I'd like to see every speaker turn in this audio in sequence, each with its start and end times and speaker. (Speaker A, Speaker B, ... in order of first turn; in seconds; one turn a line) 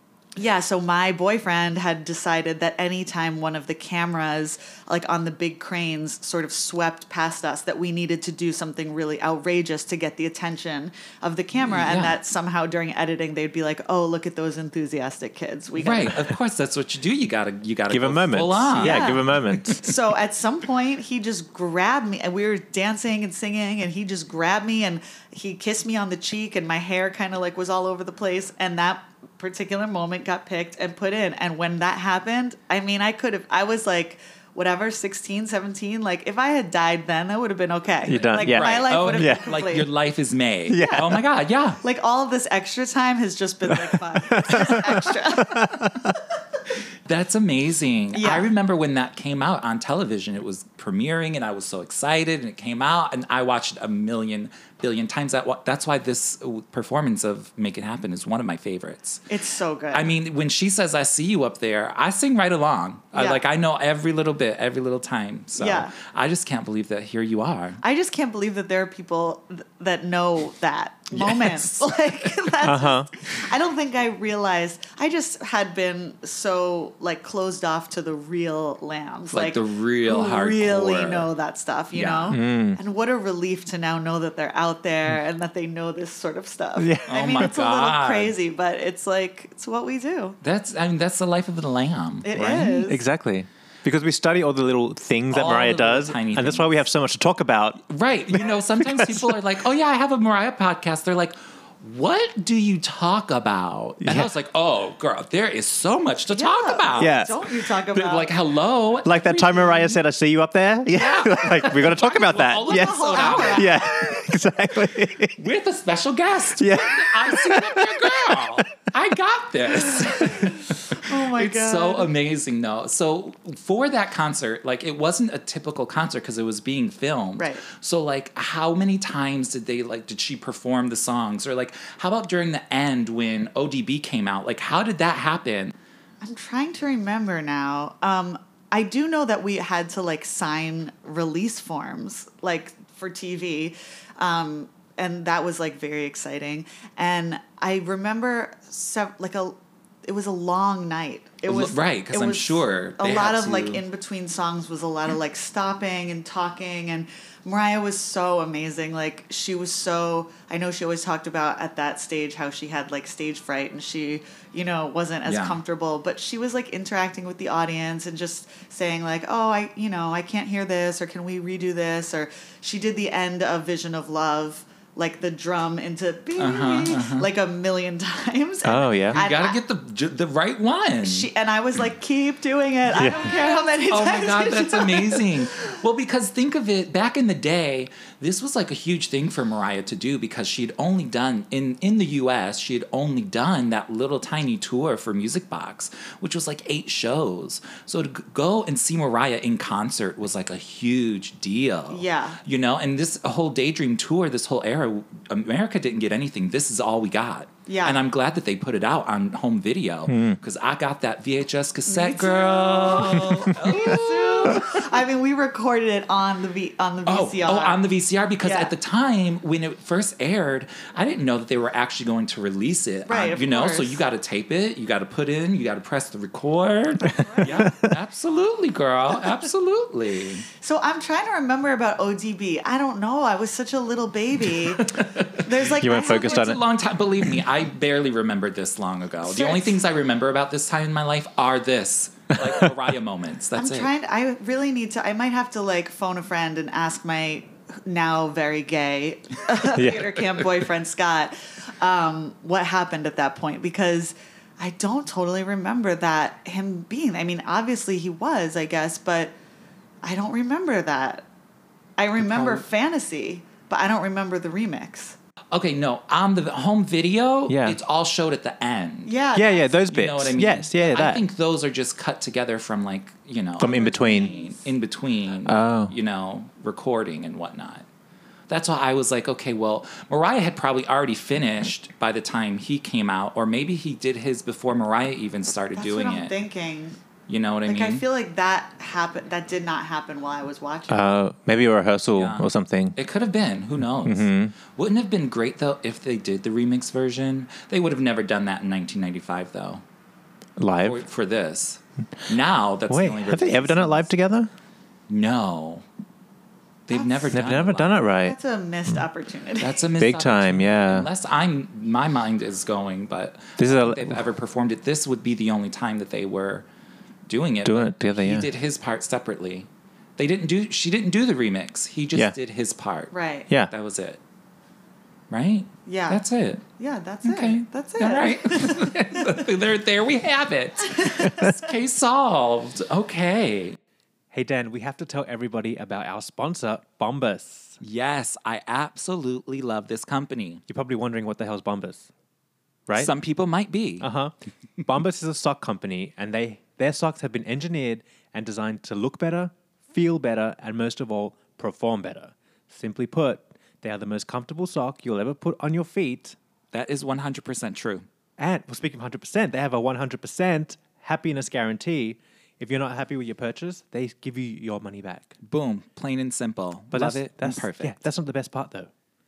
Speaker A: 0.4-16.2
Speaker B: 11.7-12.2
Speaker B: 15.8-19.1
Speaker C: 17.9-19.8
Speaker A: 18.8-39.9
Speaker C: 38.1-39.5
Speaker B: 38.1-41.8
Speaker C: 40.7-41.2
Speaker A: 41.8-46.1
Speaker C: 43.7-46.1
Speaker B: 47.1-59.2
Speaker A: 48.1-48.5
Speaker A: 59.3-60.1
Speaker B: 59.9-67.8
Speaker A: 63.1-63.4
Speaker A: 65.6-65.9
Speaker A: 67.8-90.4
Speaker B: 71.1-71.8
Speaker C: 72.6-73.1
Speaker B: 79.3-81.3
Speaker B: 81.9-82.4
Speaker C: 82.3-82.8
Speaker C: 86.8-87.5
Speaker B: 87.1-88.4
Speaker B: 90.4-92.3
Speaker A: 92.2-93.0
Speaker C: 92.3-97.8
Speaker B: 95.3-96.8
Speaker B: 97.9-107.3
Speaker C: 98.3-99.4
Speaker C: 104.0-104.3
Speaker A: 106.3-108.3
Speaker C: 107.0-107.3
Speaker B: 107.9-110.0
Speaker C: 109.0-115.4
Speaker B: 110.9-113.9
Speaker A: 112.7-114.2
Speaker B: 115.4-135.7
Speaker C: 116.6-118.4
Speaker A: 120.5-122.1
Speaker A: 127.4-127.6
Speaker A: 136.2-179.6
Speaker B: 151.5-153.8
Speaker B: 165.3-165.6
Speaker B: 176.4-177.3
Speaker C: 178.7-179.2
Speaker B: 179.1-181.3
Speaker A: 181.0-185.7
Speaker C: 182.9-183.2
Speaker B: 183.2-215.0
Speaker A: 201.9-202.4
Speaker A: 207.7-208.0
Speaker C: 210.1-210.4
Speaker A: 211.9-217.8
Speaker B: 217.1-230.5
Speaker A: 218.4-218.7
Speaker A: 223.1-224.0
Speaker C: 227.1-227.9
Speaker A: 227.2-227.7
Speaker A: 230.6-236.6
Speaker B: 234.7-235.4
Speaker C: 235.8-236.6
Speaker B: 236.0-243.9
Speaker A: 239.3-239.8
Speaker A: 243.6-259.3
Speaker C: 249.7-250.1
Speaker A: 260.0-261.3
Speaker A: 262.0-265.2
Speaker C: 262.2-262.6
Speaker B: 265.5-269.1
Speaker C: 267.5-267.8
Speaker A: 269.1-269.8
Speaker C: 269.4-271.2
Speaker B: 269.9-277.9
Speaker C: 273.6-274.3
Speaker A: 273.6-274.6
Speaker C: 275.5-275.9
Speaker B: 278.5-286.3
Speaker A: 285.8-287.0
Speaker B: 287.3-288.1
Speaker A: 287.7-291.1
Speaker C: 290.9-293.0
Speaker B: 292.1-299.8
Speaker C: 294.0-294.5
Speaker C: 300.6-301.0
Speaker B: 300.8-304.1
Speaker C: 302.9-304.5
Speaker B: 305.1-305.8
Speaker B: 306.9-308.0
Speaker A: 306.9-307.4
Speaker C: 307.3-308.4
Speaker A: 308.1-309.8
Speaker B: 309.6-316.7
Speaker C: 310.0-311.1
Speaker C: 313.6-314.2
Speaker B: 317.3-323.1
Speaker C: 317.6-318.5
Speaker A: 323.1-323.5
Speaker B: 323.7-324.2
Speaker B: 325.3-326.6
Speaker A: 325.9-326.2
Speaker A: 326.8-328.9
Speaker B: 327.2-333.8
Speaker A: 330.9-331.6
Speaker C: 334.3-337.8
Speaker B: 337.8-340.6
Speaker C: 340.7-342.1
Speaker B: 342.9-344.1
Speaker C: 344.0-344.3
Speaker C: 344.9-356.4
Speaker B: 356.7-358.1
Speaker C: 358.4-365.3
Speaker B: 365.4-368.0
Speaker C: 366.9-368.9